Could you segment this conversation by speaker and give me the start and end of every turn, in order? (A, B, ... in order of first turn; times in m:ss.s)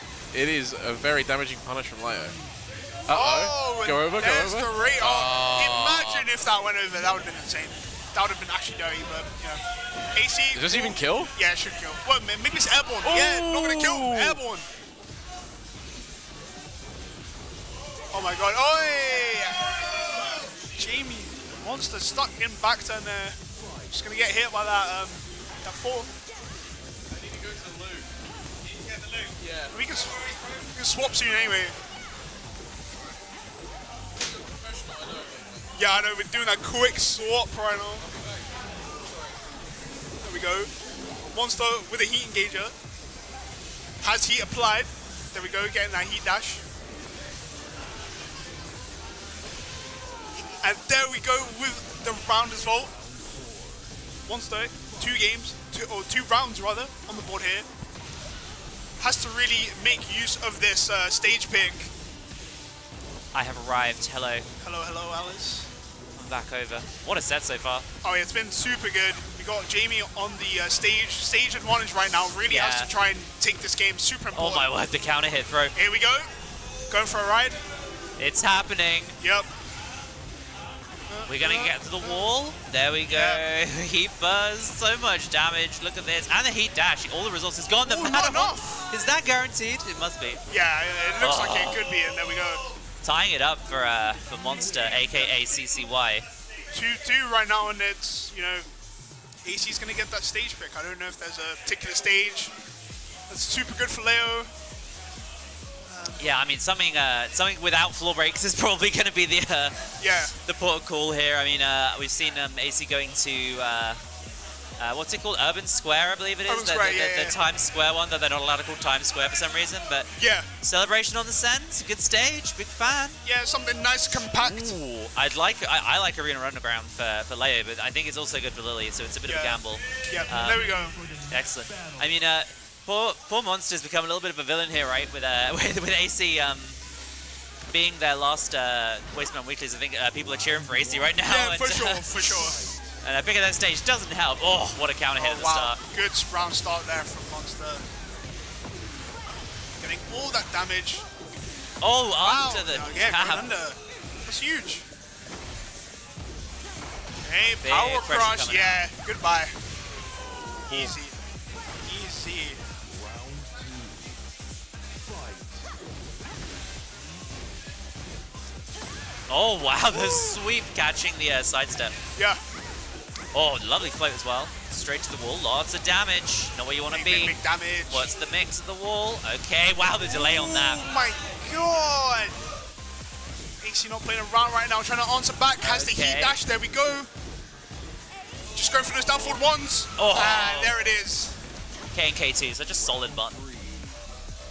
0:00.3-0:02.4 A
0:03.1-0:06.3 A
0:03.1-0:09.6 B
0:10.1-0:14.7 B
0:10.5-0:11.3 A
0:13.0-0:14.4 A
0:18.1-0:19.7 B
0:20.7-0:23.4 B
0:23.9-0:26.1 B
0:29.4-0:29.7 A
0:29.7-0:31.8 B
0:35.7-0:38.0 B
0:40.2-0:42.7 B
0:44.0-0:46.6 B
0:50.6-0:52.9 B
0:54.2-0:57.7 B
0:59.0-1:01.9 B
1:03.3-1:04.5 C
1:04.6-1:05.7 B
1:06.2-1:07.8 C
1:08.0-1:14.7 B
1:12.5-1:12.9 C
1:14.3-1:15.7 C
1:15.8-1:16.3 B
1:16.9-1:17.6 B
1:18.2-1:19.2 C
1:19.2-1:19.5 B
1:21.1-1:22.2 B
1:21.3-1:30.4 C
1:23.1-1:23.4 B
1:27.8-1:28.8 B
1:30.5-1:32.6 B
1:31.2-1:31.8 C
1:33.0-1:36.2 C
1:36.7-1:38.7 B
1:39.4-1:42.5 B
1:43.3-1:44.5 B
1:45.9-1:46.3 B
1:46.2-1:49.8 C
1:50.0-1:50.3 B
1:50.3-1:54.0 C
1:54.8-2:03.2 C
1:56.5-1:57.4 B
2:00.2-2:00.5 B
2:03.2-2:04.7 B
2:04.4-2:16.8 C
2:09.3-2:11.0 B
2:17.7-2:22.4 C
2:21.2-2:22.6 B
2:23.0-2:25.8 C
2:25.2-2:27.8 B
2:29.8-2:31.0 B
2:31.8-2:33.4 C
2:32.2-2:34.8 B
2:37.2-2:39.5 B
2:37.6-2:38.8 C
2:40.7-2:41.2 B
2:41.8-2:42.6 B
2:49.3-2:52.0 C
2:49.9-2:50.4 B
2:52.2-2:52.4 B
2:53.3-2:57.4 C
2:56.9-2:58.1 B
2:57.9-3:00.8 C
3:00.1-3:02.4 B
3:03.6-3:07.1 B
3:05.6-3:06.4 C
3:08.5-3:11.4 B
3:10.0-3:10.8 C
3:11.9-3:13.4 C